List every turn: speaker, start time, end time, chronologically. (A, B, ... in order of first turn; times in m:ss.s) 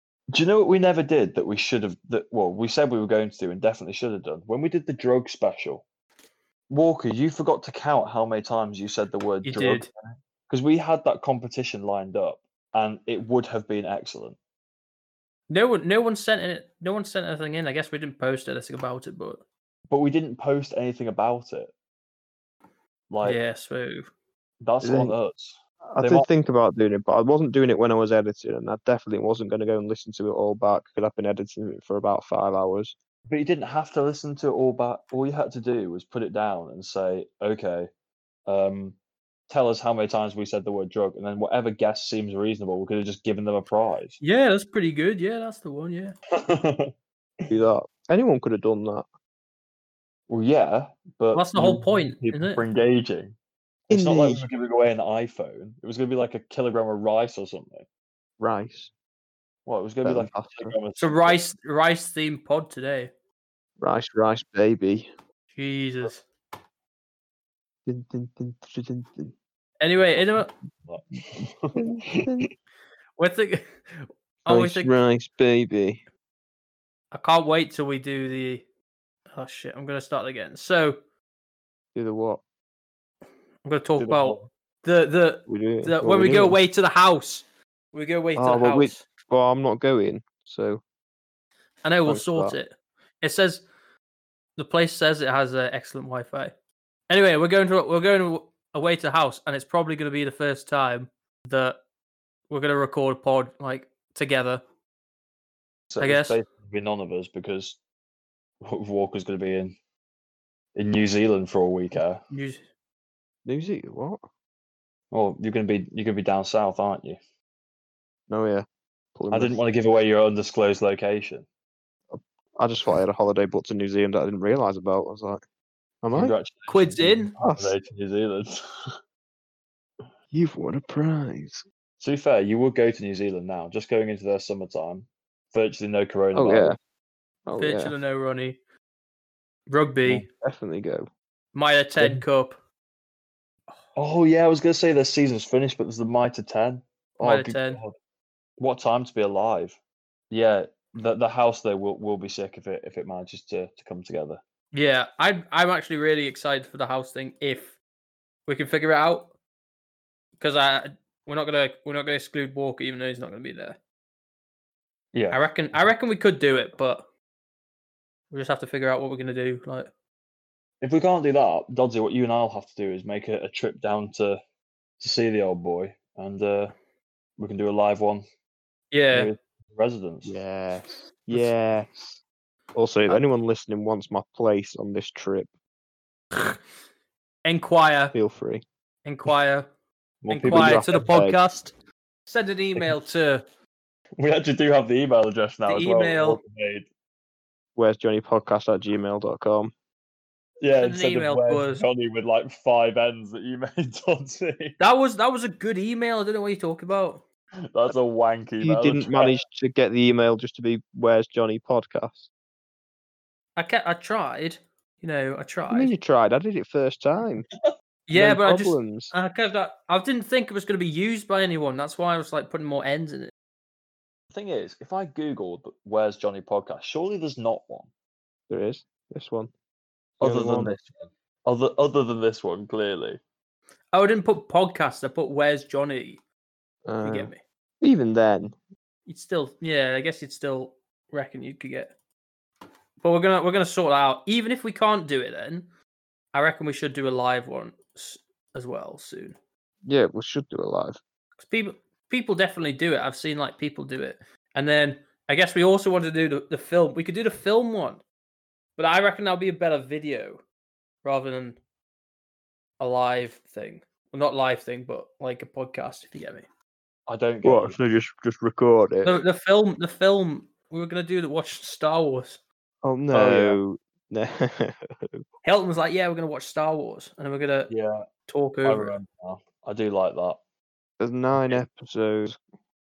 0:00.3-0:05.8 A
0:06.7-0:14.4 A
0:09.4-0:09.9 B
0:15.5-0:19.4 B
0:19.9-0:21.7 A
0:23.1-0:23.4 A
0:23.2-0:24.1 B
0:24.6-0:26.2 A
0:24.8-0:25.1 C
0:25.9-0:32.9 C
0:33.3-0:37.9 A
0:38.5-0:39.0 A
0:39.5-0:44.2 A
0:44.2-0:46.1 B
0:46.3-0:46.9 A
0:47.5-0:49.0 C
0:50.3-0:53.3 A
0:51.3-0:52.6 B
0:53.9-0:57.8 A
0:53.9-0:54.4 C
0:58.4-0:58.9 C
0:59.6-1:01.4 A
1:00.0-1:00.8 C
1:01.0-1:03.1 B
1:03.8-1:05.1 C
1:05.5-1:06.2 B
1:07.8-1:09.3 C
1:09.8-1:10.5 B
1:10.8-1:12.4 A
1:11.8-1:12.5 C
1:13.2-1:14.9 B
1:14.5-1:16.0 C
1:17.1-1:18.6 B
1:19.3-1:21.0 B
1:21.9-1:22.4 C
1:23.6-1:29.0 B
1:24.0-1:24.3 C
1:25.5-1:26.6 C
1:28.4-1:30.8 C
1:31.8-1:33.6 B
1:32.0-1:32.6 C
1:34.6-1:36.5 B
1:37.1-1:41.8 B
1:42.5-1:44.6 B
1:45.9-1:47.8 A
1:46.0-1:46.4 B
1:48.6-1:49.7 A
1:50.8-1:52.2 A
1:52.3-1:52.6 B
1:53.4-1:54.2 C
1:55.1-1:57.2 A
1:58.3-1:59.6 C
1:59.3-2:01.4 A
2:02.1-2:05.4 C
2:06.0-2:06.3 C
2:06.1-2:08.9 A
2:06.7-2:07.3 B
2:07.4-2:07.7 C
2:10.3-2:11.6 C
2:12.0-2:16.8 A
2:16.3-2:16.8 C
2:17.4-2:17.9 C
2:17.6-2:18.6 B
2:19.7-2:20.2 B
2:20.1-2:21.1 C
2:21.5-2:22.6 B
2:24.0-2:27.9 A
2:27.2-2:27.8 B
2:28.6-2:29.8 A
2:30.3-2:34.4 A
2:34.7-2:37.8 B
2:38.4-2:39.3 B
2:40.4-2:43.8 B
2:45.1-2:45.4 A
2:45.3-2:47.0 B
2:48.3-2:49.9 B
2:50.8-2:54.4 A
2:55.0-2:56.7 A
2:57.4-2:58.2 A
2:58.9-2:59.3 B
2:59.1-3:00.4 A
3:00.2-3:02.2 C
3:02.7-3:05.5 C
3:07.4-3:08.1 B
3:08.1-3:08.6 C
3:09.0-3:09.7 B
3:10.2-3:11.0 A
3:10.3-3:11.7 B
3:10.5-3:11.4 C
3:12.3-3:13.4 B
3:14.2-3:16.9 A
3:15.7-3:16.4 B
3:17.8-3:19.7 C
3:20.6-3:24.8 A
3:20.8-3:21.8 B
3:24.8-3:27.2 B
3:27.7-3:29.4 A
3:28.6-3:32.3 C
3:33.6-3:35.9 B
3:35.7-3:37.5 C
3:38.1-3:43.3 B
3:38.1-3:39.1 C
3:44.3-3:47.9 A
3:48.5-3:49.5 C
3:50.2-3:53.2 A
3:50.2-3:50.8 C
3:53.9-3:56.2 B
3:56.8-3:58.6 C
3:57.0-3:57.4 B
3:59.1-4:01.9 B
4:03.0-4:05.6 B
4:06.3-4:09.4 B
4:09.8-4:11.0 C
4:11.4-4:18.0 B
4:18.8-4:20.4 B
4:21.0-4:21.6 B
4:22.8-4:26.4 B
4:27.1-4:27.8 A
4:27.4-4:29.2 C
4:29.0-4:32.4 B
4:32.8-4:35.2 C
4:33.1-4:33.6 A
4:35.4-4:37.7 B
4:37.7-4:38.0 A
4:38.3-4:38.9 B
4:38.6-4:40.4 A
4:41.0-4:42.4 C
4:41.3-4:41.6 A